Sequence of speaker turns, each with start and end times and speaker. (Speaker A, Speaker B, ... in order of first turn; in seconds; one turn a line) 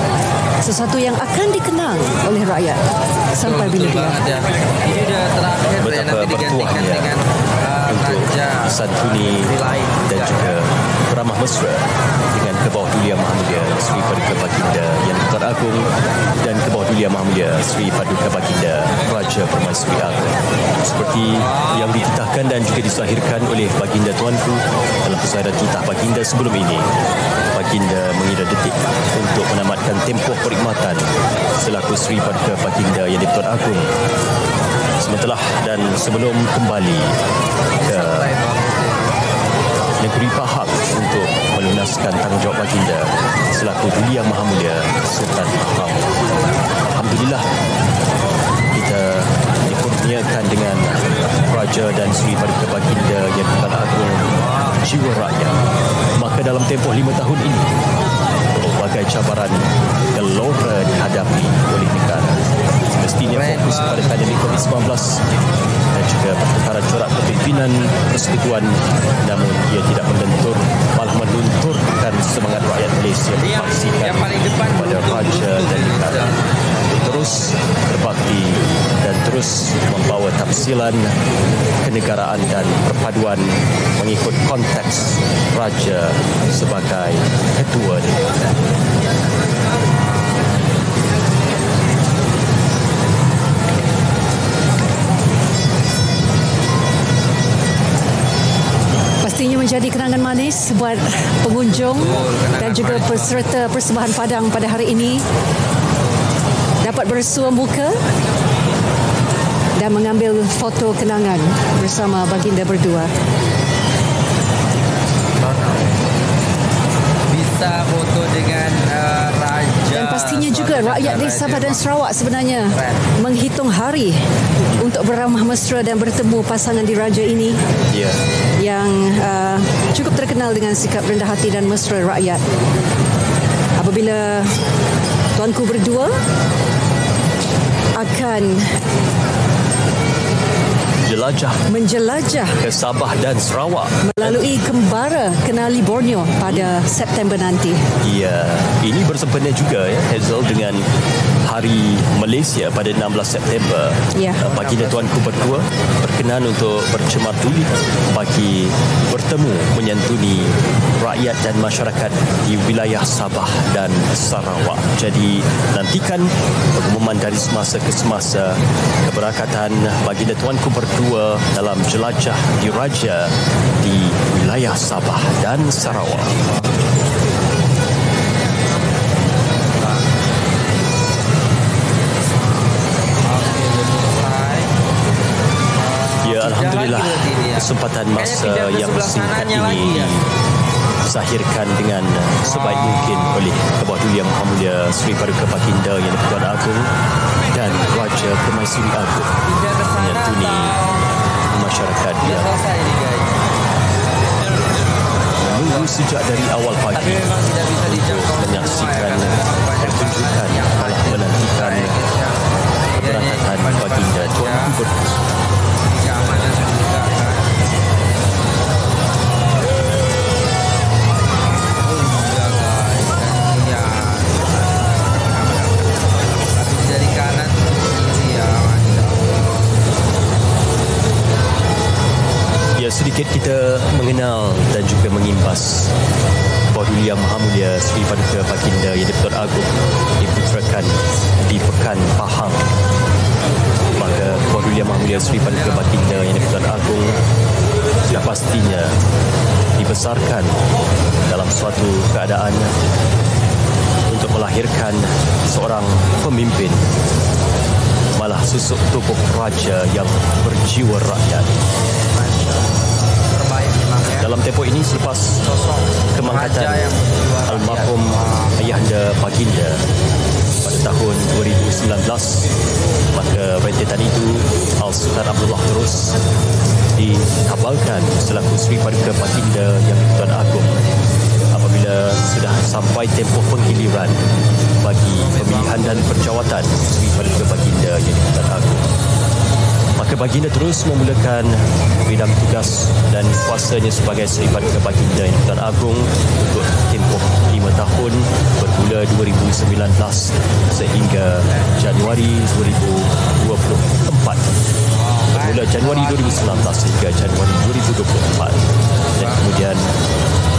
Speaker A: 0.6-2.8
Speaker A: 3.4-4.2
Speaker B: 3.4-10.7
Speaker C: 5.8-7.2
Speaker C: 7.9-9.5
Speaker C: 10.1-15.9
Speaker B: 13.5-14.3
Speaker C: 16.4-26.9
Speaker B: 21.3-22.1
Speaker C: 27.5-33.9
Speaker C: 35.0-37.1
Speaker B: 37.7-39.7
Speaker C: 37.8-38.3
Speaker C: 40.0-46.1
Speaker C: 46.9-47.5
Speaker C: 48.7-55.6
Speaker B: 54.2-54.9
Speaker C: 56.2-57.7
Speaker C: 58.5-62.4
Speaker C: 63.0-65.2
Speaker B: 63.3-64.8
Speaker C: 65.9-76.3
Speaker B: 73.3-77.5
Speaker C: 77.0-81.1
Speaker C: 81.8-88.2
Speaker A: 99.2-105.2
Speaker B: 101.7-103.5
Speaker A: 106.8-108.0
Speaker A: 109.8-113.1
Speaker B: 115.4-116.1
Speaker B: 117.3-121.8
Speaker A: 119.9-124.2
Speaker B: 122.7-123.0
Speaker A: 124.8-127.6
Speaker C: 127.9-128.2
Speaker A: 128.6-132.4
Speaker A: 133.8-134.5
Speaker A: 135.3-136.1
Speaker A: 137.9-138.6
Speaker C: 141.0-141.6
Speaker A: 141.7-142.6
Speaker C: 142.5-144.4
Speaker A: 144.0-147.8
Speaker C: 146.5-146.7
Speaker C: 148.0-150.8
Speaker C: 151.4-176.3
Speaker A: 154.1-154.4
Speaker B: 154.4-155.6
Speaker B: 175.8-176.8
Speaker B: 179.7-180.1
Speaker B: 182.5-184.8
Speaker B: 185.7-190.2
Speaker C: 186.2-190.2
Speaker C: 191.1-196.9
Speaker B: 192.4-193.5
Speaker C: 197.5-199.3
Speaker B: 199.4-201.1
Speaker C: 199.9-200.8
Speaker C: 201.5-202.5
Speaker B: 202.2-203.4
Speaker B: 204.7-206.1
Speaker C: 205.4-211.9
Speaker B: 206.9-214.8
Speaker C: 213.0-214.9
Speaker B: 215.8-217.5
Speaker B: 221.8-229.9
Speaker C: 232.8-235.9
Speaker C: 236.7-242.6
Speaker B: 244.0-247.0
Speaker C: 244.0-247.2
Speaker C: 248.1-248.9
Speaker C: 249.8-250.6
Speaker C: 251.2-252.7
Speaker C: 254.1-256.9
Speaker C: 258.1-261.5
Speaker B: 261.9-264.4
Speaker C: 264.1-265.4
Speaker B: 265.4-268.9
Speaker C: 266.1-266.9
Speaker C: 267.5-269.8
Speaker C: 270.6-272.5
Speaker C: 273.1-276.1
Speaker C: 276.9-280.8
Speaker C: 281.5-284.2
Speaker C: 284.8-288.9
Speaker B: 285.1-286.4
Speaker C: 290.0-304.5
Speaker B: 301.4-301.8
Speaker B: 304.9-306.9
Speaker C: 305.3-308.6
Speaker B: 309.0-309.6
Speaker C: 309.1-309.9